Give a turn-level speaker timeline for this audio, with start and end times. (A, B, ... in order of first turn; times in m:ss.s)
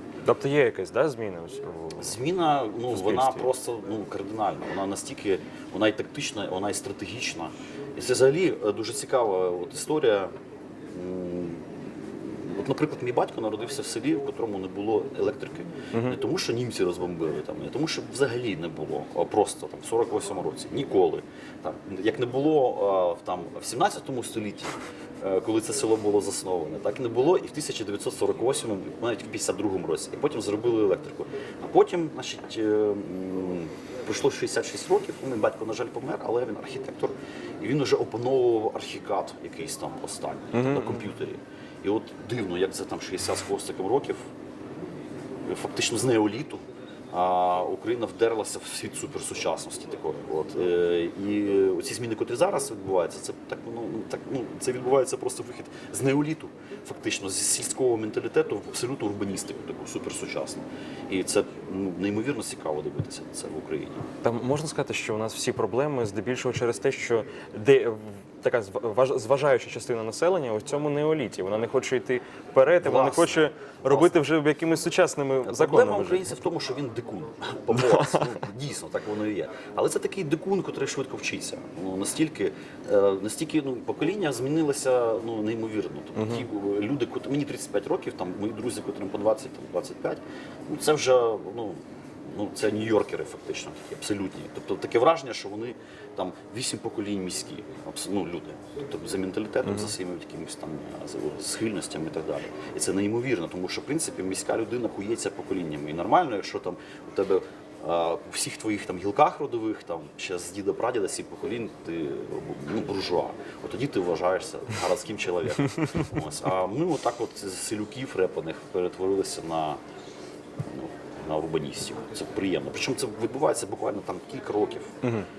0:00.2-0:02.2 A
0:01.9-0:10.3 B
0:02.9-0:03.5 A
0:10.9-0:44.3 B
0:40.5-0:41.0 A
0:45.4-1:04.1 B
1:04.2-1:16.3 A
1:12.8-1:14.2 B
1:15.4-1:59.8 B
1:17.7-1:18.4 A
1:26.2-1:26.4 A
2:00.6-2:05.0 B